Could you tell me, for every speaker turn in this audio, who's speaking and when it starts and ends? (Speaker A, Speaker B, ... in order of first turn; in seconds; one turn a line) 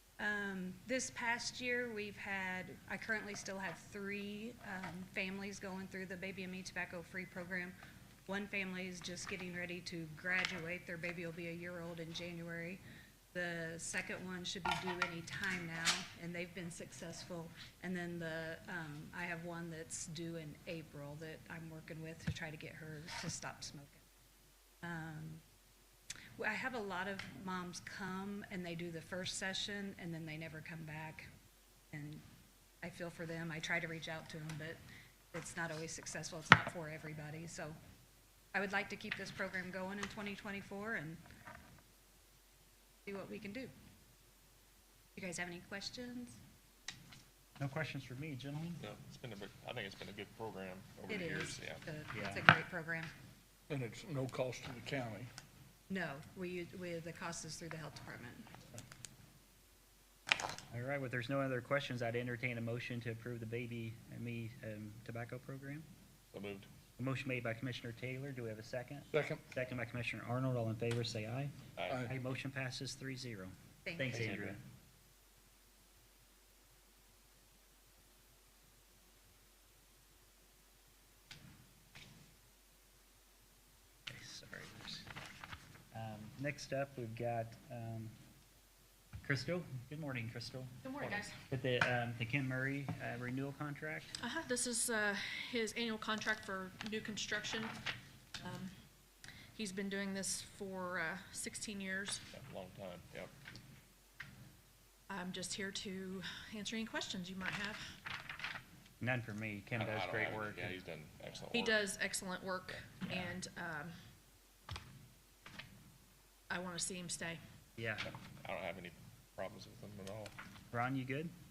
Speaker A: 0.2-7.8
Speaker A: 8.3-12.8
Speaker A: 13.3-24.1
Speaker A: 24.8-25.4
Speaker A: 26.4-31.3
Speaker A: 31.9-32.2
Speaker A: 32.8-34.8
Speaker A: 35.3-37.8
Speaker A: 38.5-41.2
Speaker A: 43.1-43.7
Speaker A: 45.2-46.4
Speaker B: 47.6-48.8
Speaker C: 48.8-51.8
Speaker A: 51.1-53.1
Speaker B: 52.1-52.5
Speaker D: 53.7-55.3
Speaker A: 55.9-58.5
Speaker B: 60.7-65.9
Speaker C: 66.3-66.7
Speaker B: 67.0-74.6
Speaker D: 69.1-69.4
Speaker D: 71.9-72.2
Speaker A: 73.8-74.5
Speaker B: 84.1-85.1
Speaker B: 85.9-88.1
Speaker B: 89.2-94.2
Speaker E: 90.8-91.3
Speaker E: 94.2-97.8
Speaker E: 98.4-98.7
Speaker E: 99.5-102.2
Speaker C: 102.3-103.3
Speaker E: 105.1-107.9
Speaker B: 109.0-110.8
Speaker C: 109.8-111.9
Speaker E: 111.5-113.9
Speaker E: 116.5-117.4
Speaker B: 117.8-118.1
Speaker C: 118.2-120.3
Speaker B: 120.7-121.3